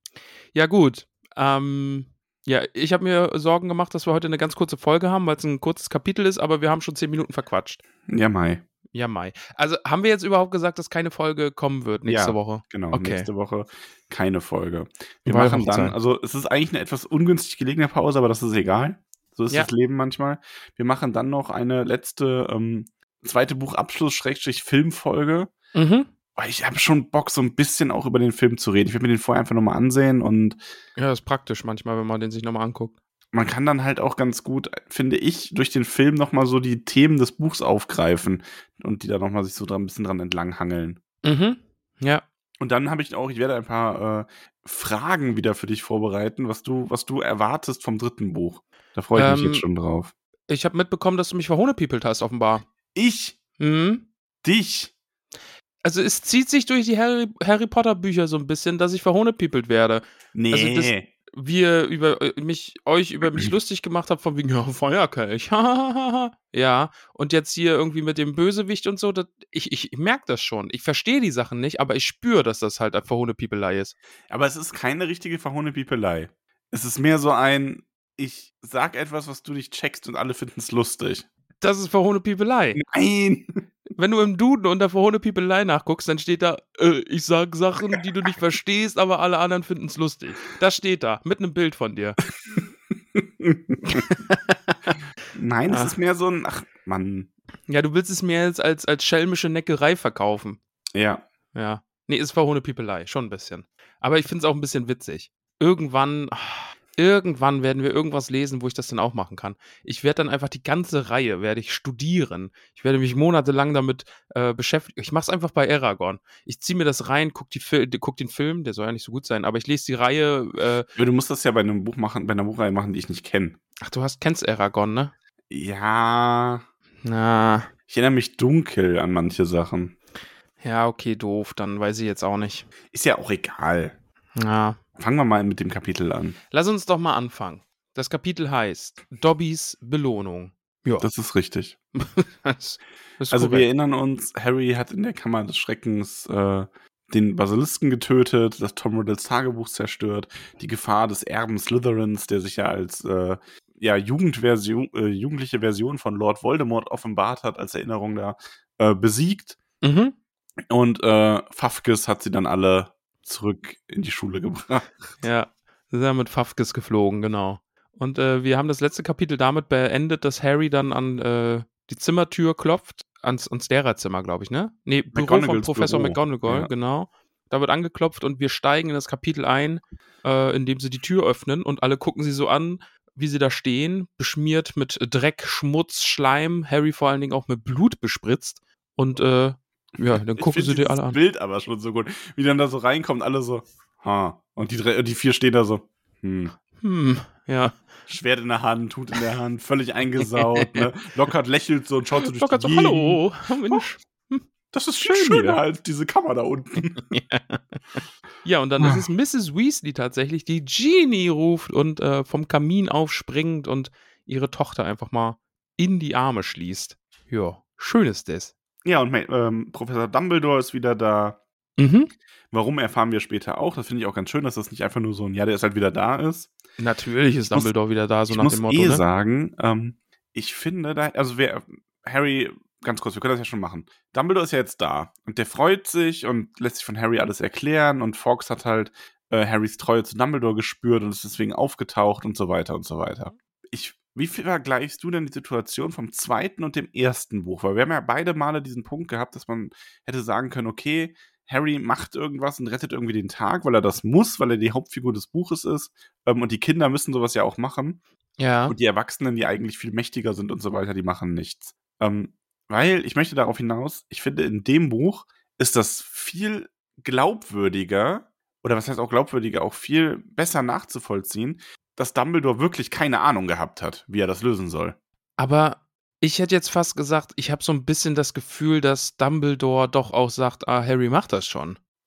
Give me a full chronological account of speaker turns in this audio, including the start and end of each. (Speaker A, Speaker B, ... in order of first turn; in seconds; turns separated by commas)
Speaker A: 0.5-7.8, Speaker B: 8.1-8.7, Speaker A: 8.9-13.3, Speaker B: 12.1-25.5, Speaker A: 15.3-15.9, Speaker A: 25.7-26.1, Speaker B: 26.4-30.6, Speaker A: 31.0-33.0, Speaker B: 33.3-41.0, Speaker A: 41.2-42.2, Speaker B: 42.6-50.1, Speaker A: 49.1-49.6, Speaker A: 50.5-52.7, Speaker B: 53.0-53.4, Speaker A: 53.6-54.1, Speaker B: 54.4-54.9, Speaker A: 55.8-74.0, Speaker B: 60.3-61.1, Speaker B: 74.3-81.3, Speaker A: 81.6-82.8, Speaker B: 82.8-83.6, Speaker A: 84.0-92.2, Speaker B: 93.2-94.0, Speaker A: 93.9-94.9, Speaker B: 95.3-97.3, Speaker A: 95.7-96.0, Speaker A: 97.7-100.6, Speaker B: 101.0-101.2, Speaker A: 101.5-120.9, Speaker B: 121.0-123.6, Speaker A: 123.8-125.1, Speaker B: 125.5-126.6, Speaker A: 127.0-127.7, Speaker B: 127.9-129.9, Speaker A: 130.6-132.7, Speaker B: 132.9-134.0, Speaker A: 134.4-134.8, Speaker B: 135.0-136.4, Speaker A: 136.5-141.1, Speaker B: 141.0-141.8, Speaker A: 142.0-143.7, Speaker B: 143.3-159.6, Speaker A: 159.8-160.2, Speaker B: 160.7-165.0, Speaker A: 165.2-191.2, Speaker B: 175.1-176.7, Speaker B: 190.0-196.5, Speaker A: 196.8-197.7, Speaker B: 198.1-203.8, Speaker A: 200.2-200.9, Speaker A: 202.2-204.5, Speaker B: 204.7-207.0, Speaker A: 205.1-205.6, Speaker A: 207.0-218.5, Speaker B: 208.8-209.1, Speaker B: 218.8-221.4, Speaker A: 221.8-222.1, Speaker B: 222.5-226.6, Speaker A: 226.8-229.0, Speaker B: 228.3-258.0, Speaker A: 258.4-258.8, Speaker B: 258.7-275.0, Speaker A: 275.4-281.8